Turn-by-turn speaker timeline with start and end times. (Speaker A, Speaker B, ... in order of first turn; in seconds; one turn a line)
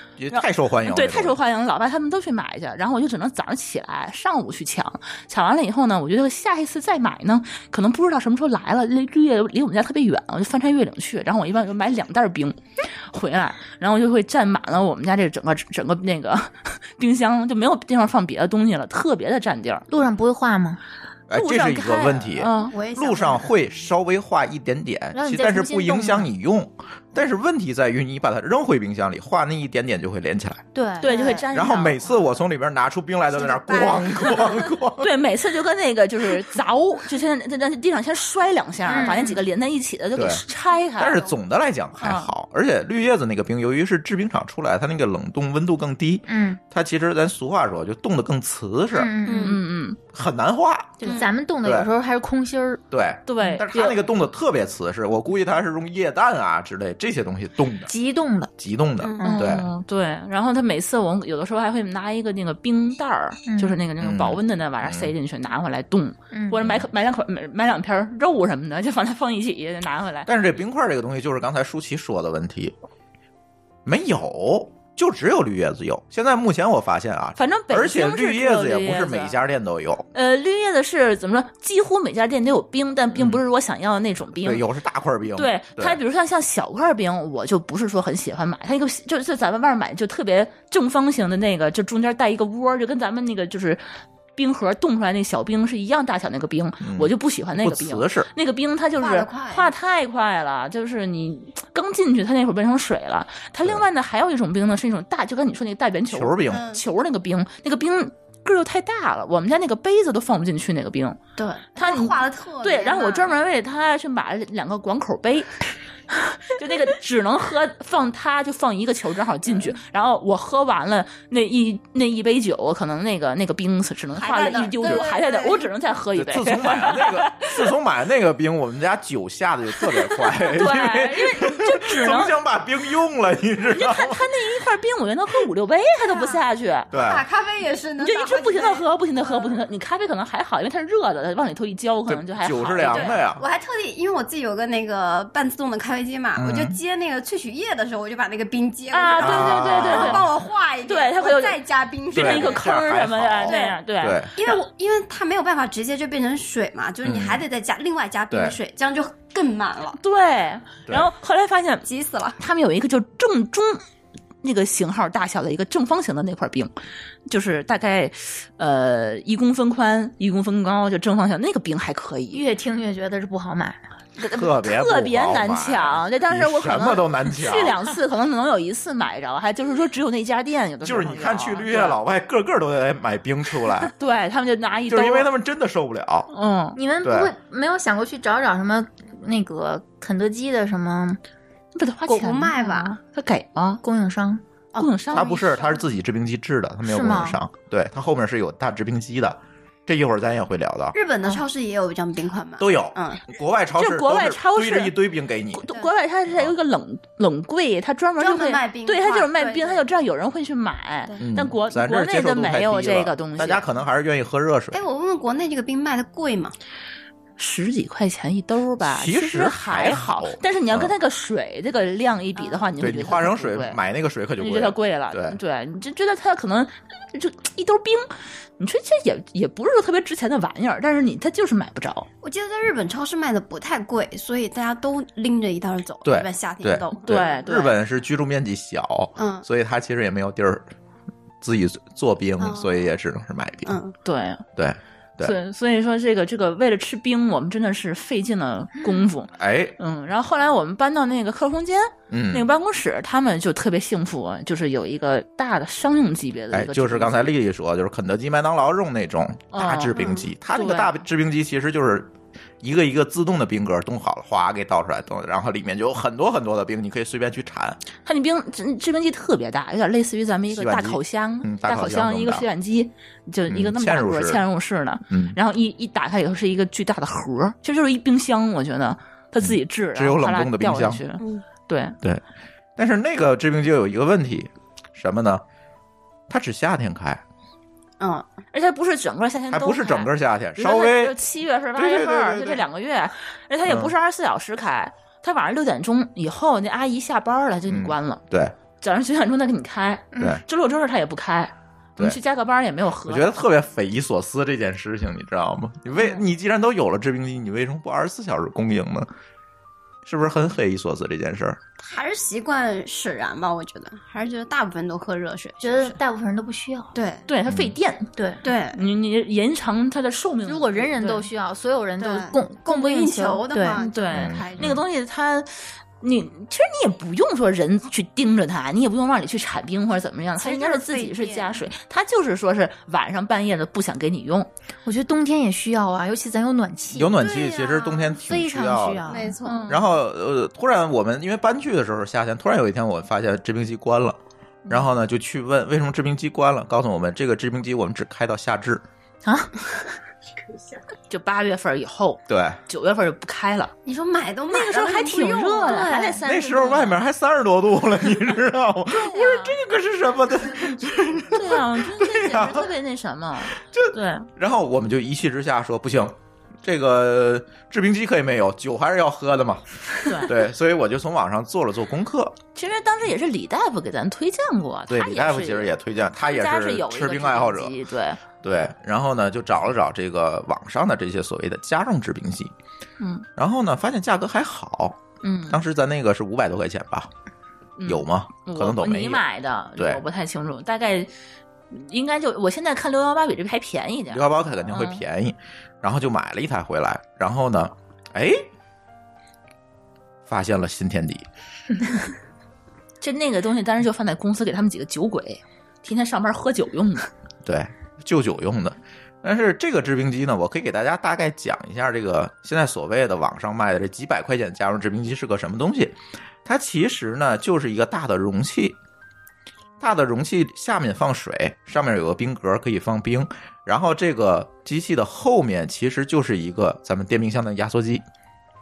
Speaker A: 0.2-1.4
Speaker B: 0.3-12.6
Speaker B: 13.1-19.9
Speaker C: 19.9-20.8
Speaker A: 21.3-30.6
Speaker B: 21.3-22.8
Speaker D: 22.6-23.5
Speaker C: 25.1-26.3
Speaker C: 30.7-31.4
Speaker B: 31.0-32.2
Speaker D: 31.1-31.4
Speaker A: 31.5-35.1
Speaker D: 33.3-34.7
Speaker B: 35.0-41.3
Speaker C: 38.9-39.4
Speaker D: 38.9-39.4
Speaker A: 40.2-40.4
Speaker A: 41.0-49.1
Speaker B: 42.0-42.3
Speaker C: 46.3-46.6
Speaker C: 48.9-49.6
Speaker D: 49.2-49.6
Speaker B: 49.4-50.0
Speaker A: 50.1-51.1
Speaker D: 51.0-51.3
Speaker C: 51.0-52.8
Speaker A: 51.6-51.9
Speaker A: 52.9-57.9
Speaker B: 53.3-54.0
Speaker C: 57.9-58.5
Speaker A: 58.6-59.7
Speaker D: 59.0-59.4
Speaker C: 59.2-59.5
Speaker B: 59.2-70.3
Speaker C: 63.5-63.8
Speaker A: 64.0-65.1
Speaker C: 66.3-66.6
Speaker A: 66.6-66.9
Speaker A: 70.3-72.7
Speaker A: 73.8-80.1
Speaker B: 77.4-79.3
Speaker B: 80.1-84.6
Speaker A: 83.1-83.4
Speaker A: 84.4-86.0
Speaker B: 85.3-93.8
Speaker B: 94.4-111.2
Speaker A: 96.8-98.3
Speaker D: 99.0-99.7
Speaker A: 106.1-106.7
Speaker D: 106.5-106.8
Speaker D: 111.4-113.4
Speaker B: 111.8-115.6
Speaker B: 116.1-127.7
Speaker D: 124.2-125.7
Speaker A: 126.2-134.2
Speaker B: 130.1-132.4
Speaker B: 133.7-136.9
Speaker D: 136.0-139.6
Speaker A: 136.9-137.2
Speaker B: 138.0-143.2
Speaker A: 142.1-143.4
Speaker D: 142.8-152.7
Speaker A: 146.4-146.8
Speaker B: 148.9-150.3
Speaker A: 149.2-150.3
Speaker B: 150.8-151.6
Speaker B: 152.1-154.6
Speaker A: 152.1-154.3
Speaker D: 153.5-153.8
Speaker D: 154.4-160.0
Speaker A: 157.0-157.4
Speaker A: 158.3-158.6
Speaker B: 160.0-161.9
Speaker D: 161.9-162.4
Speaker B: 162.4-163.8
Speaker B: 164.4-166.7
Speaker B: 167.3-172.4
Speaker C: 172.3-173.8
Speaker B: 174.2-182.0
Speaker A: 174.3-177.8
Speaker A: 180.8-183.9
Speaker B: 183.9-185.3
Speaker A: 184.9-186.3
Speaker B: 186.3-186.8
Speaker C: 186.8-191.2
Speaker A: 187.0-187.3
Speaker B: 191.8-193.8
Speaker D: 192.1-193.0
Speaker C: 193.8-194.8
Speaker B: 194.8-195.4
Speaker A: 195.1-200.9
Speaker D: 195.1-195.8
Speaker C: 196.8-197.4
Speaker D: 200.9-203.2
Speaker A: 202.6-205.7
Speaker B: 203.8-204.9
Speaker B: 205.5-213.7
Speaker D: 208.2-209.8
Speaker A: 211.2-214.8
Speaker D: 214.7-216.6
Speaker B: 217.4-223.8
Speaker A: 218.8-220.9
Speaker D: 222.4-222.7
Speaker A: 222.8-225.4
Speaker B: 224.4-232.1
Speaker D: 232.2-237.3
Speaker A: 236.1-240.7
Speaker B: 237.0-237.8
Speaker D: 239.2-239.5
Speaker A: 241.4-243.8
Speaker D: 242.4-242.9
Speaker D: 243.7-243.9
Speaker B: 244.1-244.4
Speaker A: 244.6-245.3
Speaker B: 245.2-257.4
Speaker A: 249.4-249.8
Speaker A: 252.1-252.5
Speaker A: 256.5-262.1
Speaker B: 259.5-260.9
Speaker D: 259.9-260.3
Speaker A: 262.6-267.8
Speaker B: 268.0-282.0
Speaker A: 270.5-272.5
Speaker A: 273.5-274.4
Speaker A: 275.1-275.4
Speaker A: 279.4-281.0
Speaker A: 282.8-285.4
Speaker A: 286.3-287.2
Speaker D: 288.0-288.3
Speaker B: 288.5-298.2
Speaker A: 289.5-291.2
Speaker A: 291.8-292.6
Speaker A: 293.7-293.9
Speaker A: 297.7-298.5
Speaker B: 298.8-303.4
Speaker C: 300.1-300.4
Speaker A: 303.1-309.1
Speaker A: 310.1-311.6
Speaker D: 311.8-316.0
Speaker C: 315.6-316.9
Speaker D: 316.9-317.3
Speaker B: 317.3-318.1
Speaker A: 317.5-317.7
Speaker C: 318.2-318.4
Speaker D: 318.4-318.8
Speaker B: 318.7-321.3
Speaker C: 320.5-323.8
Speaker D: 322.0-324.8
Speaker B: 323.7-334.5
Speaker A: 324.1-324.8
Speaker D: 330.4-331.6
Speaker C: 334.9-337.4
Speaker A: 336.9-339.1
Speaker D: 337.2-338.2
Speaker C: 338.2-339.4
Speaker D: 339.1-339.7
Speaker B: 339.4-339.9
Speaker A: 339.7-348.8
Speaker C: 349.2-349.5
Speaker B: 351.1-353.7
Speaker A: 352.3-352.6
Speaker D: 353.9-356.1
Speaker B: 354.5-357.0
Speaker C: 355.6-356.2
Speaker A: 356.3-362.7
Speaker B: 358.9-359.6
Speaker B: 361.3-364.3
Speaker A: 363.5-372.4
Speaker B: 370.1-370.4
Speaker B: 372.6-378.2
Speaker A: 374.9-377.7
Speaker A: 378.4-382.5
Speaker B: 383.0-383.3
Speaker A: 383.4-387.1
Speaker B: 385.2-385.6
Speaker B: 387.8-391.1
Speaker A: 387.9-389.2
Speaker B: 391.7-395.0
Speaker A: 394.1-398.4
Speaker A: 400.3-401.3
Speaker B: 403.0-407.1
Speaker A: 407.4-418.8
Speaker A: 419.8-428.0